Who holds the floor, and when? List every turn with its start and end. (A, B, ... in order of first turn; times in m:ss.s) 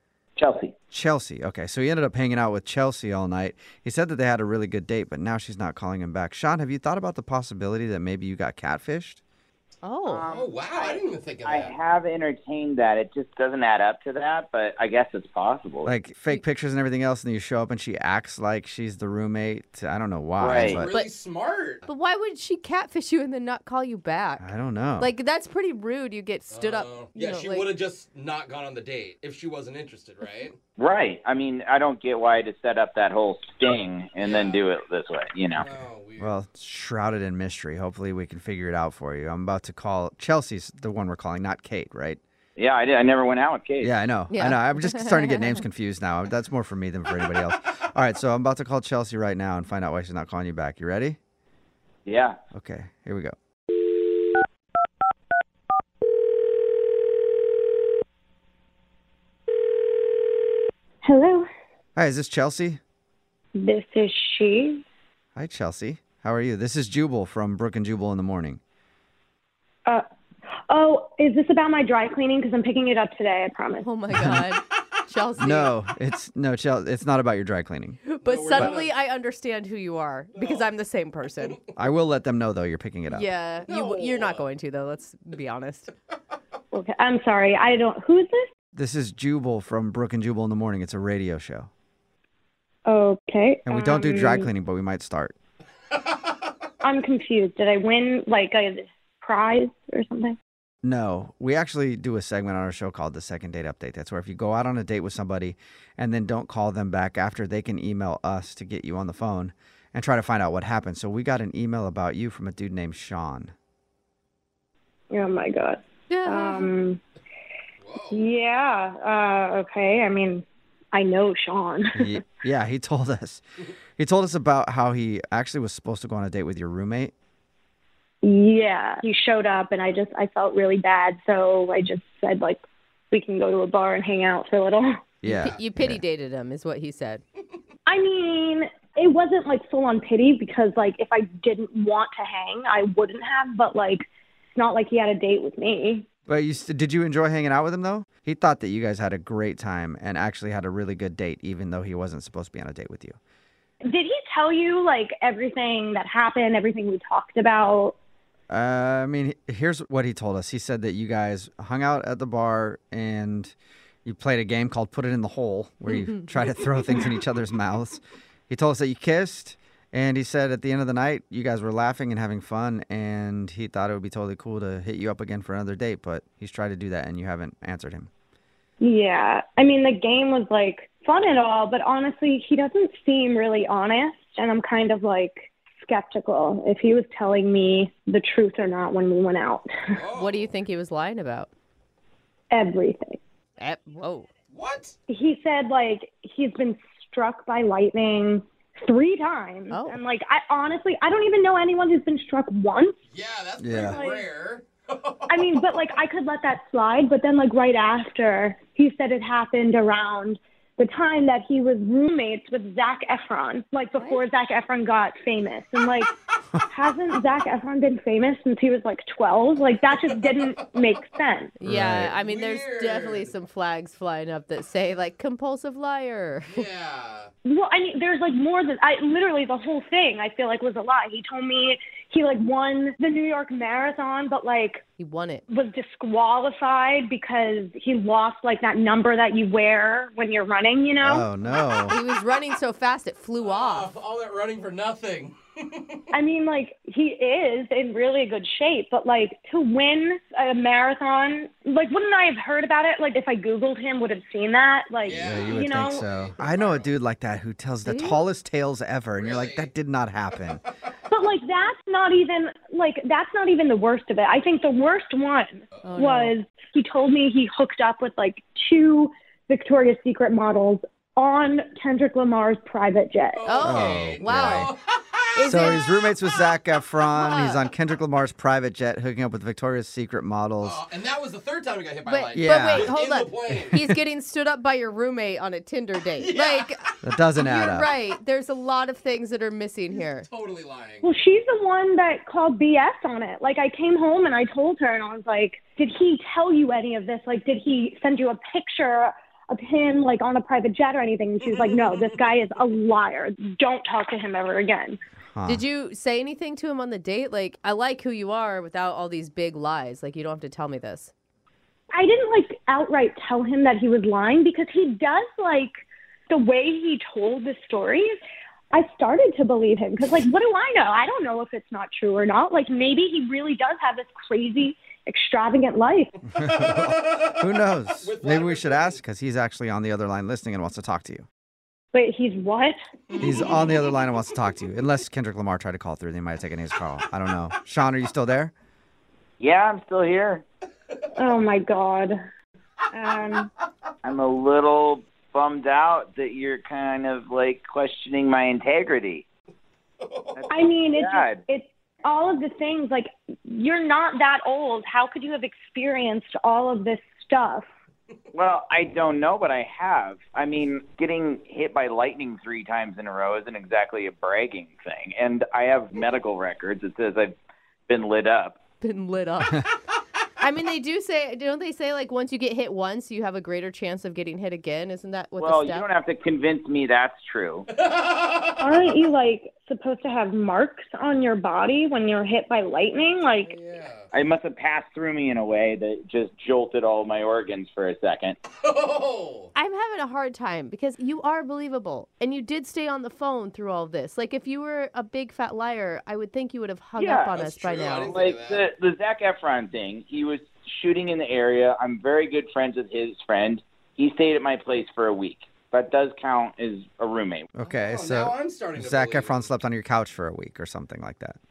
0:00.4-0:00.7 A
0:00.9-0:09.2 B
0:09.8-0:10.2 C
0:10.0-0:15.9 A
0:10.2-0:11.7 D
0:15.8-0:20.9 B
0:20.4-0:20.8 A
0:20.5-0:21.8 D
0:21.8-0:27.7 C
0:24.4-0:25.1 B
0:26.5-0:30.6 D
0:30.8-0:35.7 A
0:34.2-0:34.6 D
0:35.6-0:36.4 D
0:36.2-0:42.2 B
0:42.6-0:43.9 A
0:43.8-0:51.2 B
0:44.3-0:45.6 C
0:52.0-0:52.4 A
0:52.5-0:53.3 B
1:01.0-1:01.4 E
1:02.0-1:02.8 B
1:03.5-1:04.8 E
1:05.4-1:08.6 B
1:10.7-1:13.8 E
1:13.8-1:15.7 C
1:14.1-1:14.4 B
1:15.4-1:18.0 B
1:18.0-1:21.6 C
1:18.2-1:18.9 D
1:20.4-1:20.7 D
1:21.8-1:23.3 B
1:23.1-1:25.9 C
1:23.7-1:24.5 D
1:26.7-1:28.5 E
1:28.7-1:31.7 B
1:32.8-1:34.5 E
1:33.6-1:35.3 B
1:36.0-1:36.5 D
1:36.8-1:40.4 E
1:40.8-1:53.5 B
1:55.1-1:57.0 E
1:56.1-1:56.7 C
1:57.8-1:58.3 D
1:58.1-2:02.2 E
2:02.0-2:03.4 B
2:04.0-2:07.1 B
2:08.2-2:12.6 E
2:13.1-2:15.0 E
2:15.2-2:16.0 B
2:15.2-2:17.2 C
2:17.8-2:24.0 E
2:24.6-2:26.0 E
2:26.3-2:33.2 B
2:33.8-2:37.9 E
2:38.5-2:58.1 B
2:58.8-3:09.9 E
3:09.9-3:10.5 D
3:10.1-3:11.5 C
3:12.5-3:13.2 E
3:13.6-3:14.3 C
3:14.5-3:15.0 D
3:15.1-3:23.0 E
3:19.7-3:20.0 C
3:23.1-3:25.8 D
3:23.6-3:24.0 B
3:23.8-3:24.2 E
3:25.3-3:36.1 E
3:36.7-3:41.5 E
3:40.1-3:40.6 D
3:41.6-3:46.7 C
3:41.6-3:42.1 B
3:42.1-3:43.3 D
3:46.5-3:47.3 D
3:47.4-3:54.8 E
3:55.0-3:55.4 C
3:55.5-4:01.3 E
4:01.0-4:02.0 B
4:01.9-4:03.9 C
4:03.4-4:06.1 D
4:06.1-4:16.0 E
4:15.0-4:17.0 D
4:15.2-4:20.6 B
4:17.8-4:18.2 C
4:19.2-4:19.7 D
4:20.3-4:20.9 D
4:21.1-4:33.4 E
4:25.8-4:26.3 C
4:33.3-4:35.8 D
4:33.4-4:34.7 C
4:33.6-4:34.7 B
4:35.4-4:35.8 C
4:35.4-4:40.8 B
4:37.1-4:37.6 C
4:40.6-4:43.8 D
4:42.0-4:46.8 C
4:42.3-4:42.9 B
4:43.5-4:43.8 B
4:46.2-4:47.0 D
4:47.0-4:47.9 B
4:47.3-4:50.3 C
4:49.9-4:51.1 D
4:51.0-5:05.0 E
5:01.6-5:02.1 D
5:05.3-5:05.6 B
5:05.4-5:11.1 C
5:11.9-5:15.7 E
5:16.3-5:18.1 E
5:18.7-5:26.2 E
5:26.3-5:29.0 D
5:26.4-5:31.2 B
5:31.9-5:33.5 E
5:33.1-5:34.0 D
5:33.2-5:38.5 B
5:39.4-5:40.4 A
5:41.2-5:42.1 E
5:42.9-5:43.5 E
5:44.0-5:49.2 A
5:50.0-5:50.5 D
5:50.4-5:51.4 A
5:50.5-5:57.6 E
5:58.3-6:07.3 A
6:07.9-6:08.6 A
6:08.8-6:09.6 C
6:10.4-6:15.9 C
6:15.4-6:17.7 A
6:17.7-6:18.8 D
6:18.6-6:23.6 E
6:23.4-6:24.1 D
6:24.1-6:28.4 A
6:28.5-6:29.5 D
6:29.5-6:38.2 C
6:37.0-6:47.5 A
6:37.3-6:38.6 D
6:47.5-6:51.4 B
6:47.6-6:49.4 D